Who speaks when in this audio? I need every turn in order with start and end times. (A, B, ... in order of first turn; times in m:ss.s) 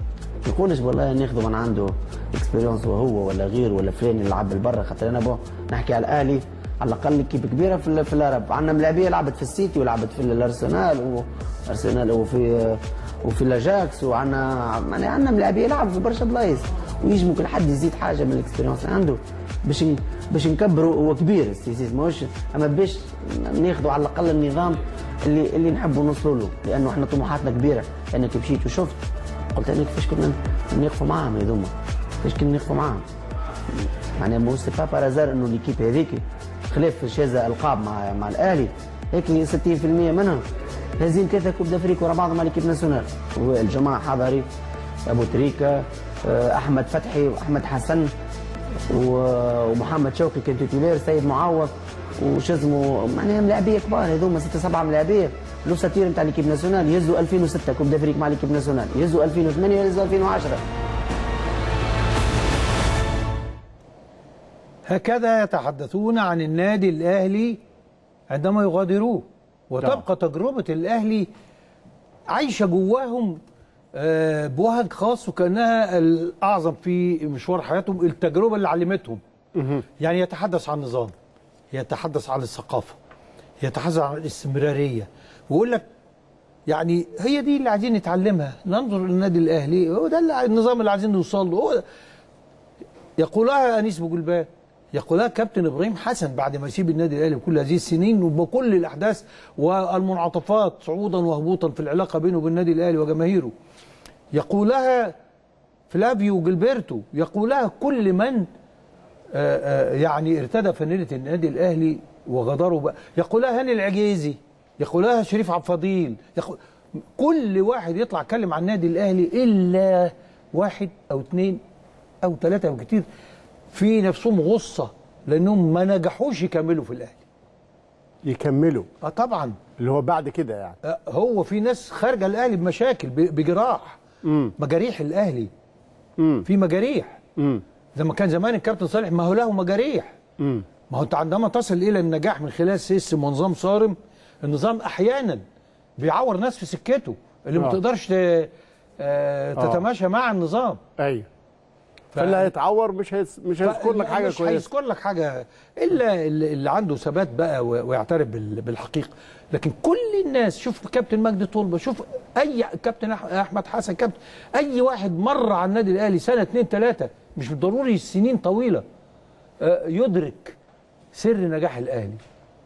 0:00.4-0:29.0 A
0:29.5-0:33.0 A
0:34.2-0:40.4 A
0:41.0-0:44.5 A
0:45.1-0:48.1 A
0:48.9-1:00.6 A
1:04.9-1:07.6 B
1:08.3-1:11.3 B
1:12.3-1:13.4 B
1:13.9-1:19.2 B
1:19.6-1:19.8 C
1:20.0-1:21.1 B
1:21.7-1:23.0 B
1:23.6-1:25.9 B
1:26.7-1:31.8 B
1:33.2-1:43.5 B
1:44.3-1:45.1 B
1:45.9-1:48.4 B
1:49.3-1:56.6 B
1:57.1-2:01.6 B
2:02.2-2:03.1 B
2:03.7-2:07.2 B
2:08.2-2:08.9 C
2:09.0-2:09.6 B
2:09.8-2:10.8 C
2:10.8-2:14.0 B
2:14.2-2:14.5 C
2:14.6-2:15.5 B
2:16.2-2:16.4 C
2:16.4-2:17.2 B
2:17.4-2:17.6 C
2:17.9-2:20.2 B
2:20.4-2:20.7 C
2:20.9-2:25.4 B
2:26.0-2:30.8 B
2:29.6-2:29.8 C
2:31.0-2:31.3 C
2:32.1-2:32.5 B
2:32.2-2:34.7 C
2:33.6-2:48.8 B
2:49.6-2:50.6 B
2:51.1-2:52.2 B